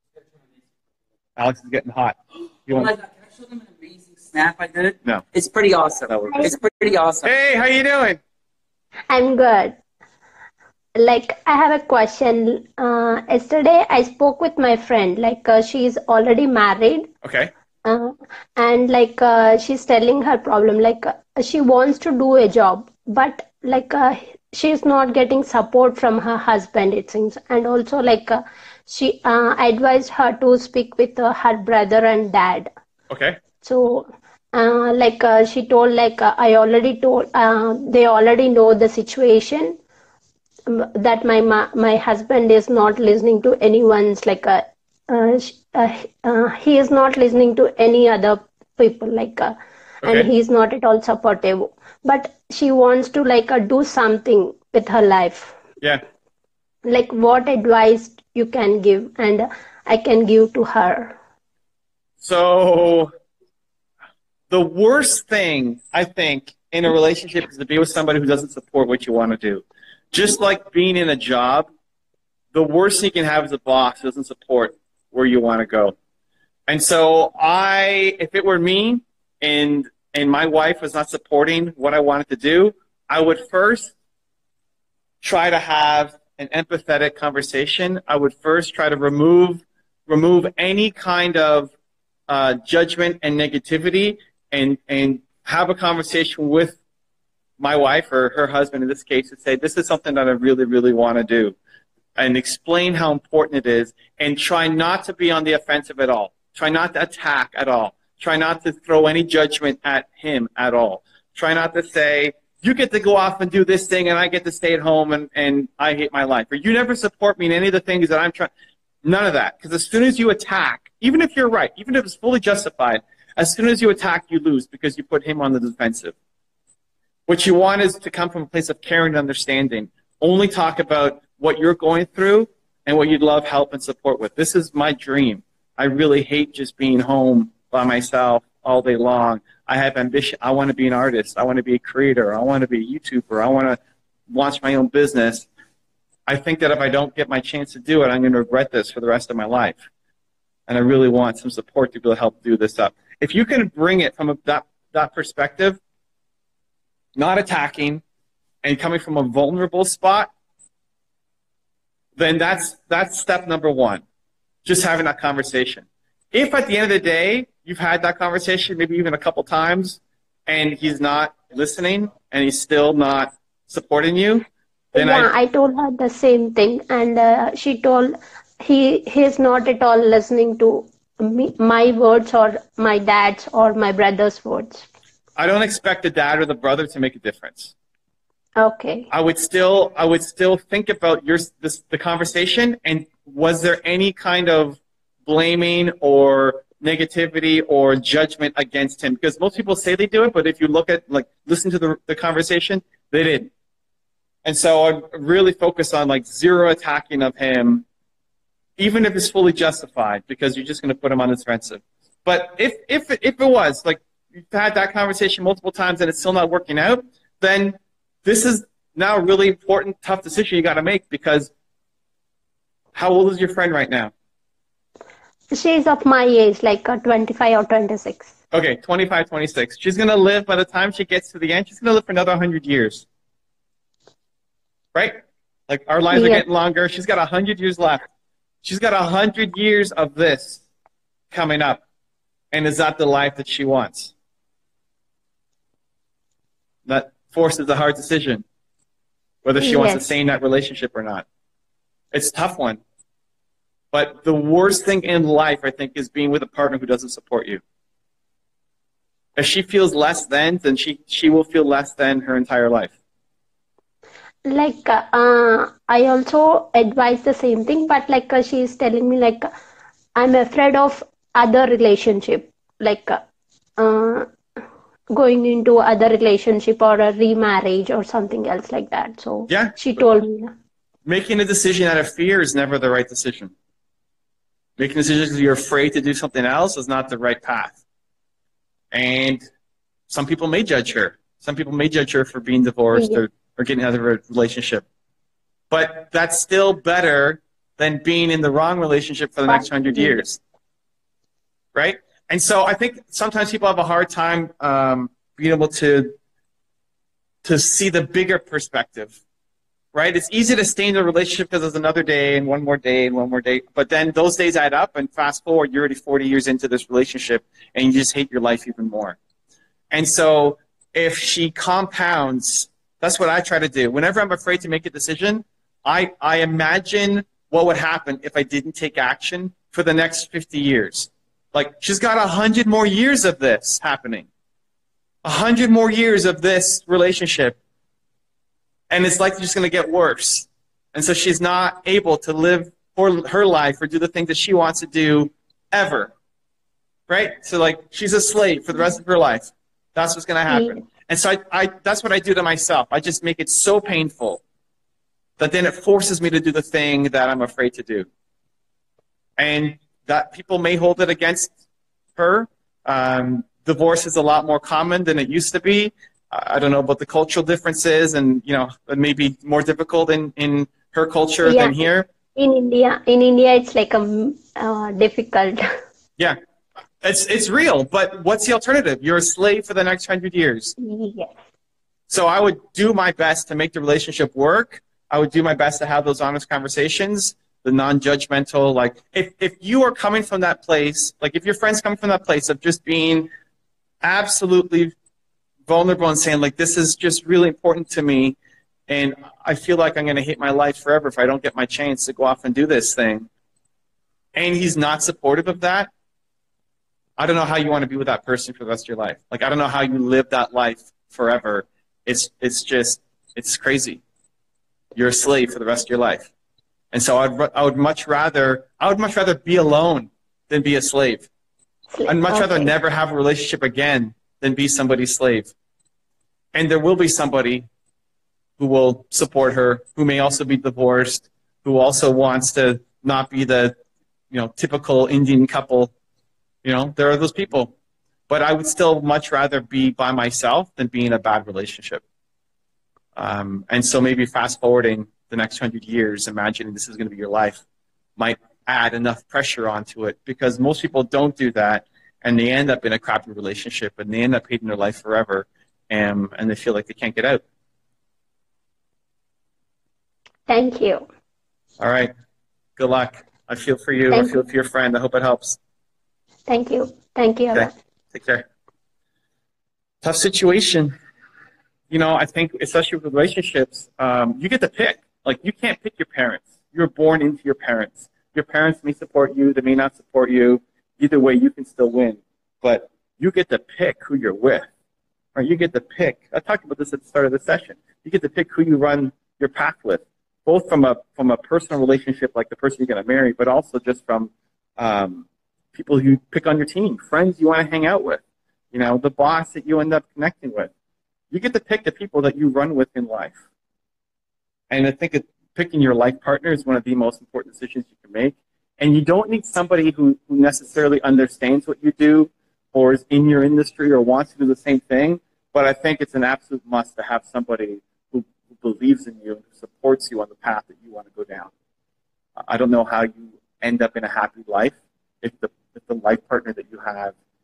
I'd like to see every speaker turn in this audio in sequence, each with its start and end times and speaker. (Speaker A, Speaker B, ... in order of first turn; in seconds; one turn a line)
Speaker A: 1.4-2.9
Speaker B: 2.7-7.3
Speaker A: 6.1-6.4
Speaker A: 7.2-8.2
Speaker C: 9.1-9.8
Speaker C: 10.9-17.1
Speaker A: 17.2-17.5
Speaker C: 17.8-32.7
Speaker A: 33.1-33.4
Speaker C: 33.6-39.8
Speaker C: 40.7-55.5
Speaker A: 50.0-50.3
Speaker C: 56.8-61.1
Speaker A: 62.2-63.1
Speaker A: 64.5-71.7
Speaker A: 72.5-75.9
Speaker A: 76.7-83.9
Speaker A: 85.2-91.7
Speaker A: 92.3-96.8
Speaker A: 97.6-101.6
Speaker A: 102.2-118.5
Speaker A: 119.0-126.2
Speaker A: 127.3-145.5
Speaker A: 146.3-149.8
Speaker A: 150.7-155.8
Speaker A: 157.2-158.0
Speaker A: 158.6-160.3
Speaker A: 162.2-164.0
Speaker A: 164.6-175.3
Speaker C: 174.9-184.9
Speaker A: 185.4-187.7
Speaker C: 188.6-189.1
Speaker A: 189.1-203.5
Speaker A: 204.4-207.8
Speaker A: 208.8-221.5
Speaker A: 222.9-224.1
Speaker C: 225.5-228.3
Speaker A: 228.5-233.1
Speaker A: 234.9-238.0
Speaker C: 236.1-236.4
Speaker A: 238.6-240.6
Speaker A: 241.3-241.8
Speaker A: 242.5-244.1
Speaker A: 246.8-248.4
Speaker A: 249.4-251.2
Speaker C: 249.6-250.1
Speaker A: 252.1-252.8
Speaker A: 253.9-257.6
Speaker A: 259.4-262.9
Speaker C: 264.4-269.5
Speaker C: 270.1-273.2
Speaker C: 273.8-274.3
Speaker C: 275.1-280.5
Speaker A: 279.5-279.8
Speaker A: 281.0-283.5
Speaker A: 284.8-287.8
Speaker A: 288.9-289.4
Speaker A: 290.1-294.9
Speaker C: 292.9-293.2
Speaker A: 295.7-300.4
Speaker C: 299.5-300.2
Speaker A: 301.7-306.1
Speaker A: 307.4-309.2
Speaker A: 309.9-319.2
Speaker A: 319.9-334.3
Speaker A: 335.2-337.6
Speaker A: 338.9-346.1
Speaker A: 347.1-354.4
Speaker C: 350.5-350.8
Speaker A: 355.4-358.1
Speaker A: 359.4-361.5
Speaker A: 362.1-372.1
Speaker C: 371.4-375.6
Speaker A: 377.0-380.7
Speaker C: 380.8-381.4
Speaker A: 382.1-393.3
Speaker A: 394.0-394.9
Speaker A: 395.6-398.4
Speaker A: 398.9-403.3
Speaker A: 404.4-405.9
Speaker A: 407.2-414.0
Speaker A: 414.9-416.3
Speaker A: 416.9-421.3
Speaker C: 421.9-422.7
Speaker A: 422.1-425.5
Speaker A: 426.5-427.6
Speaker A: 428.6-433.7
Speaker A: 434.3-435.9
Speaker A: 436.6-437.7
Speaker A: 438.3-442.0
Speaker A: 443.1-447.6
Speaker A: 448.2-457.4
Speaker C: 460.5-461.1
Speaker A: 461.8-462.1
Speaker A: 462.8-465.6
Speaker C: 464.1-464.4
Speaker C: 466.5-467.7
Speaker A: 467.5-468.4
Speaker A: 470.0-470.9
Speaker A: 471.9-484.6
Speaker A: 485.3-498.2
Speaker A: 498.7-500.7
Speaker A: 501.3-503.4
Speaker A: 504.7-521.5
Speaker A: 522.4-527.1